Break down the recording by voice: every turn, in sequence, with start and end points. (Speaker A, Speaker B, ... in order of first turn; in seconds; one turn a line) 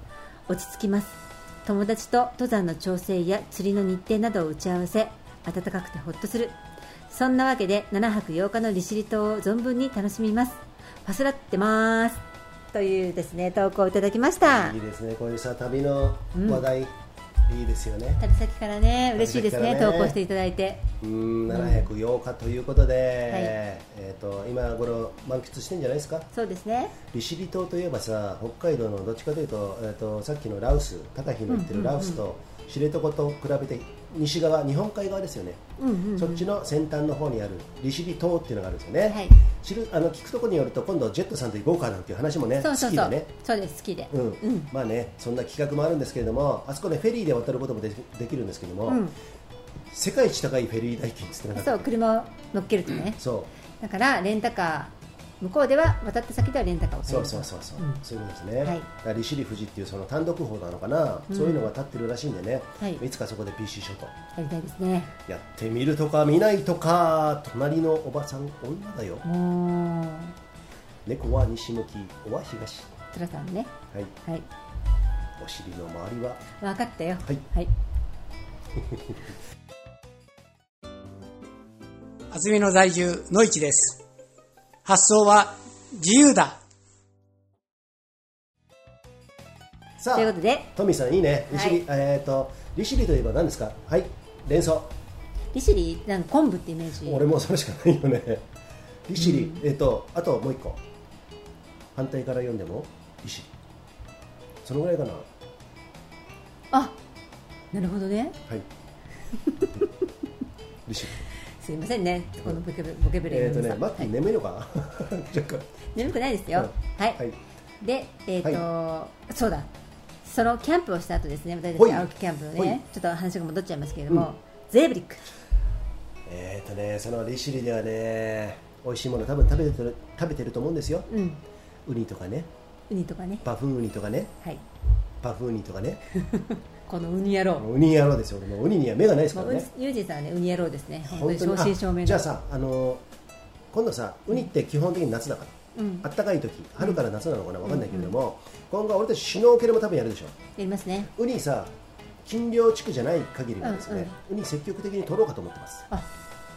Speaker A: 0.5-14.8
Speaker B: 14.4-16.9
Speaker A: 16.4-16.6
Speaker B: 17.5-18.2
Speaker A: 18.2-20.9
Speaker B: 19.2-20.2
Speaker B: 21.0-26.3
Speaker A: 21.5-21.9
Speaker A: 23.3-23.5
Speaker A: 26.3-27.0
Speaker B: 27.1-35.6
Speaker A: 31.5-32.2
Speaker A: 35.8-36.5
Speaker B: 36.2-43.3
Speaker A: 39.1-39.4
Speaker A: 42.6-44.7
Speaker B: 44.1-49.0
Speaker A: 48.9-49.2
Speaker B: 49.9-51.9
Speaker A: 51.5-53.2
Speaker B: 53.2-53.5
Speaker A: 53.8-58.0
Speaker B: 57.1-64.2
Speaker A: 61.3-61.7
Speaker A: 64.4-65.1
Speaker B: 65.3-69.2
Speaker A: 69.2-70.4
Speaker B: 71.1-73.0
Speaker A: 73.1-74.5
Speaker B: 75.4-76.4
Speaker A: 76.6-77.7
Speaker C: 82.3-84.0
Speaker C: 84.8-86.6
Speaker B: 90.0-94.9
Speaker A: 90.1-90.7
Speaker A: 91.5-91.8
Speaker A: 95.5-97.2
Speaker B: 97.0-98.5
Speaker B: 99.1-100.8
Speaker A: 99.2-99.6
Speaker B: 102.0-103.5
Speaker B: 104.6-105.3
Speaker A: 106.7-107.0
Speaker A: 107.7-108.4
Speaker A: 109.3-109.9
Speaker B: 110.9-111.2
Speaker A: 111.6-114.1
Speaker B: 113.3-115.7
Speaker A: 115.9-117.2
Speaker B: 116.5-117.4
Speaker A: 117.8-119.7
Speaker A: 120.2-125.2
Speaker B: 121.8-122.8
Speaker B: 126.3-131.1
Speaker A: 131.1-131.4
Speaker B: 131.9-132.5
Speaker A: 132.9-133.4
Speaker B: 133.4-134.3
Speaker B: 135.2-136.0
Speaker A: 136.2-137.7
Speaker B: 137.6-139.7
Speaker A: 139.3-142.3
Speaker B: 141.1-143.0
Speaker B: 143.7-150.3
Speaker A: 145.8-146.1
Speaker A: 147.7-148.1
Speaker A: 150.6-151.1
Speaker B: 151.1-151.7
Speaker B: 152.2-155.8
Speaker A: 153.6-154.1